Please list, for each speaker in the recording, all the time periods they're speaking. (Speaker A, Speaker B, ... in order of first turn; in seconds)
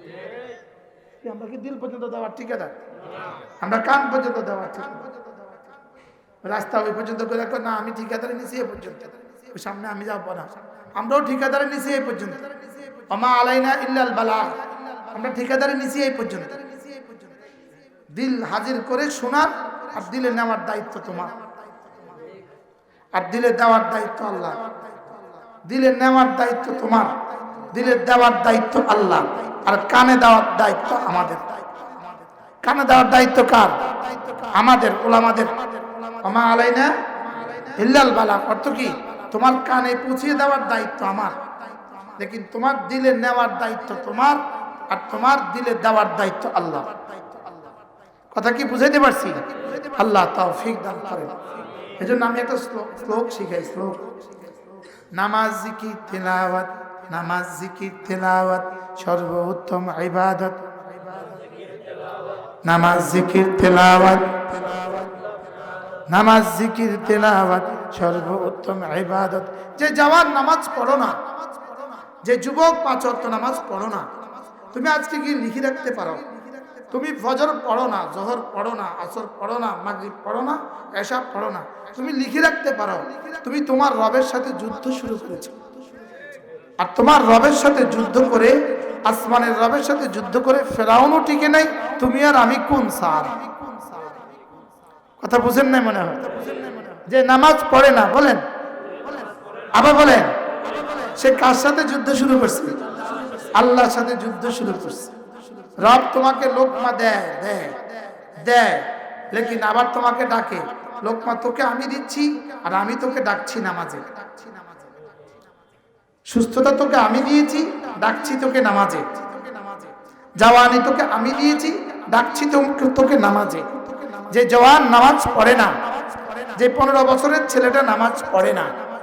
Speaker A: 1.2-2.8, 3.6-5.1, 6.4-16.6, 18.1-21.4, 23.1-24.8, 25.6-31.8, 32.6-41.4, 42.2-47.1, 48.3-51.4, 52.0-54.1, 55.1-61.0, 62.6-65.1, 66.1-71.2, 72.1-74.1, 74.7-85.6, 86.8-93.4, 95.2-98.4, 99.7-100.4, 101.0-102.9, 103.5-105.2, 105.8-114.2, 116.3-125.8, 126.4-128.8